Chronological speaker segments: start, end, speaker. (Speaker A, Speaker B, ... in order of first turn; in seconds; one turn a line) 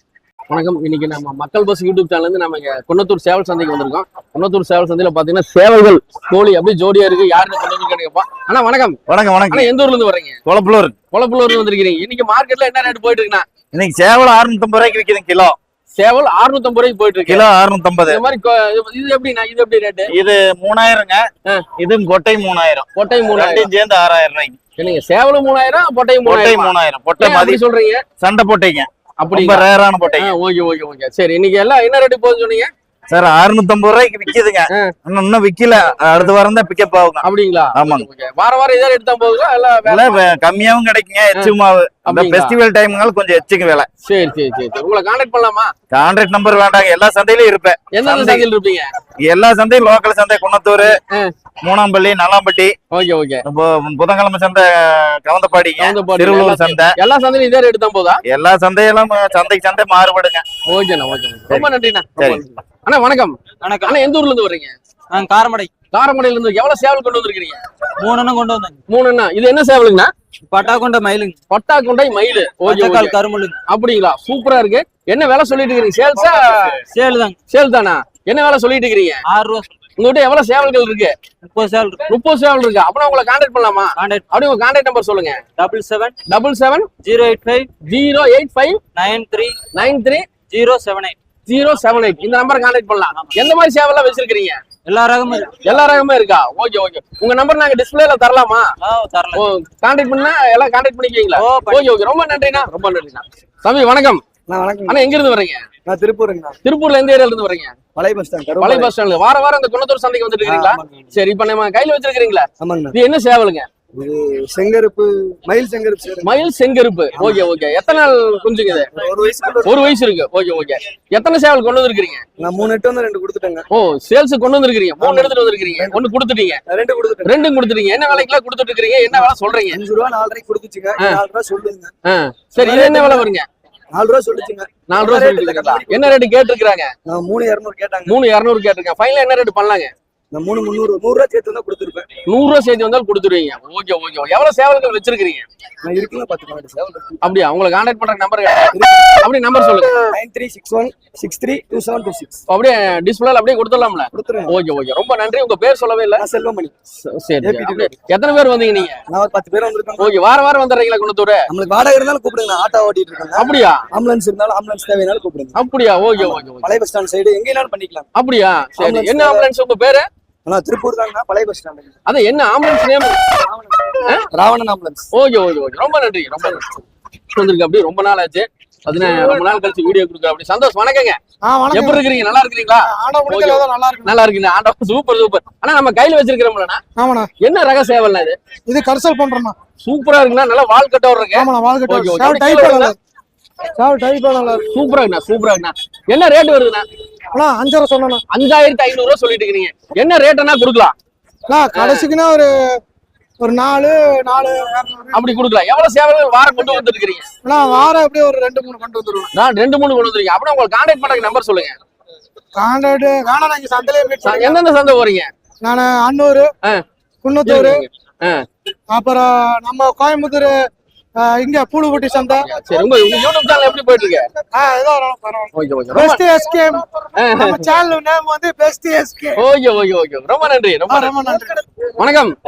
Speaker A: 0.5-9.0
Speaker B: 9.1-9.7
Speaker A: 9.5-10.4
Speaker B: 10.5-10.9
Speaker A: 11.1-13.4
Speaker B: 13.7-15.6
Speaker A: 15.9-17.4
Speaker B: 17.3-18.2
Speaker A: 18.1-20.1
Speaker B: 20.1-21.2
Speaker B: 21.8-24.6
Speaker A: 23.0-23.7
Speaker A: 24.8-28.0
Speaker B: 26.2-27.6
Speaker B: 28.2-30.3
Speaker A: 29.2-32.7
Speaker B: 33.1-38.1
Speaker A: 37.2-40.1
Speaker B: 39.9-43.9
Speaker A: 41.3-42.6
Speaker A: 44.0-45.7
Speaker B: 45.9-48.5
Speaker A: 47.9-48.9
Speaker B: 49.2-50.9
Speaker A: 50.8-51.3
Speaker B: 51.6-52.7
Speaker A: 52.9-53.4
Speaker B: 53.5-57.0
Speaker A: 55.8-58.2
Speaker B: 58.3-60.5
Speaker A: 60.7-62.1
Speaker B: 61.5-62.4
Speaker C: 62.2-62.6
Speaker A: 62.8-64.7
Speaker D: 63.6-64.0
Speaker D: 65.1-65.7
Speaker A: 65.9-67.6
Speaker D: 68.0-68.8
Speaker A: 68.9-70.1
Speaker D: 70.5-71.4
Speaker A: 71.5-76.7
Speaker D: 72.6-73.6
Speaker D: 76.8-77.4
Speaker A: 77.5-79.2
Speaker D: 79.3-79.7
Speaker A: 80.0-81.1
Speaker D: 81.4-82.1
Speaker A: 82.1-85.4
Speaker D: 84.0-84.2
Speaker D: 85.6-86.1
Speaker A: 86.3-86.9
Speaker D: 87.0-87.7
Speaker A: 87.9-88.8
Speaker D: 88.9-89.6
Speaker A: 89.7-90.2
Speaker D: 90.5-91.2
Speaker A: 91.5-94.6
Speaker D: 94.9-95.6
Speaker A: 95.6-98.7
Speaker D: 98.8-99.4
Speaker A: 99.3-104.2
Speaker D: 101.4-101.9
Speaker C: 104.5-105.1
Speaker A: 104.9-105.6
Speaker C: 105.9-106.6
Speaker A: 106.6-107.7
Speaker C: 108.0-108.9
Speaker A: 108.6-113.7
Speaker C: 110.4-111.1
Speaker C: 112.6-113.0
Speaker C: 114.0-116.3
Speaker A: 116.2-118.9
Speaker C: 117.1-117.5
Speaker C: 118.9-119.9
Speaker A: 119.6-122.2
Speaker C: 122.4-123.7
Speaker A: 123.7-126.6
Speaker C: 125.0-126.0
Speaker C: 126.7-127.3
Speaker A: 127.2-129.8
Speaker C: 129.1-131.9
Speaker A: 132.1-133.4
Speaker C: 132.6-133.3
Speaker C: 133.9-136.2
Speaker A: 134.9-136.9
Speaker C: 137.1-138.2
Speaker A: 138.1-139.9
Speaker C: 140.3-142.1
Speaker A: 142.3-145.5
Speaker C: 145.8-147.2
Speaker A: 147.2-150.0
Speaker C: 148.7-149.2
Speaker C: 150.1-152.4
Speaker A: 152.5-156.2
Speaker C: 154.1-154.6
Speaker C: 156.2-156.7
Speaker A: 157.1-159.0
Speaker C: 157.4-157.9
Speaker C: 159.1-160.1
Speaker A: 160.0-161.4
Speaker C: 161.5-165.6
Speaker A: 163.4-163.8
Speaker A: 165.6-166.7
Speaker C: 166.2-168.1
Speaker A: 168.2-170.1
Speaker C: 168.8-169.5
Speaker C: 170.4-171.9
Speaker A: 172.1-173.2
Speaker C: 173.5-175.1
Speaker A: 175.1-176.6
Speaker A: 177.3-181.2
Speaker E: 181.5-182.0
Speaker A: 181.7-186.8
Speaker E: 182.9-184.1
Speaker E: 187.0-187.3
Speaker A: 187.4-188.4
Speaker E: 188.7-189.6
Speaker A: 189.8-192.9
Speaker E: 191.3-193.0
Speaker E: 193.8-194.6
Speaker A: 194.7-196.8
Speaker E: 197.3-198.2
Speaker A: 198.3-200.9
Speaker E: 201.5-202.8
Speaker A: 201.8-202.1
Speaker E: 203.4-205.2
Speaker A: 205.1-207.2
Speaker E: 207.4-209.3
Speaker A: 209.3-211.7
Speaker E: 212.6-214.6
Speaker A: 214.2-215.3
Speaker E: 215.6-216.5
Speaker E: 217.2-217.8
Speaker A: 217.4-218.4
Speaker E: 218.9-220.6
Speaker E: 221.2-222.9
Speaker A: 222.4-224.2
Speaker E: 224.3-229.4
Speaker A: 225.6-226.2
Speaker A: 227.2-227.6
Speaker A: 229.4-231.1
Speaker E: 230.9-231.6
Speaker A: 232.0-232.3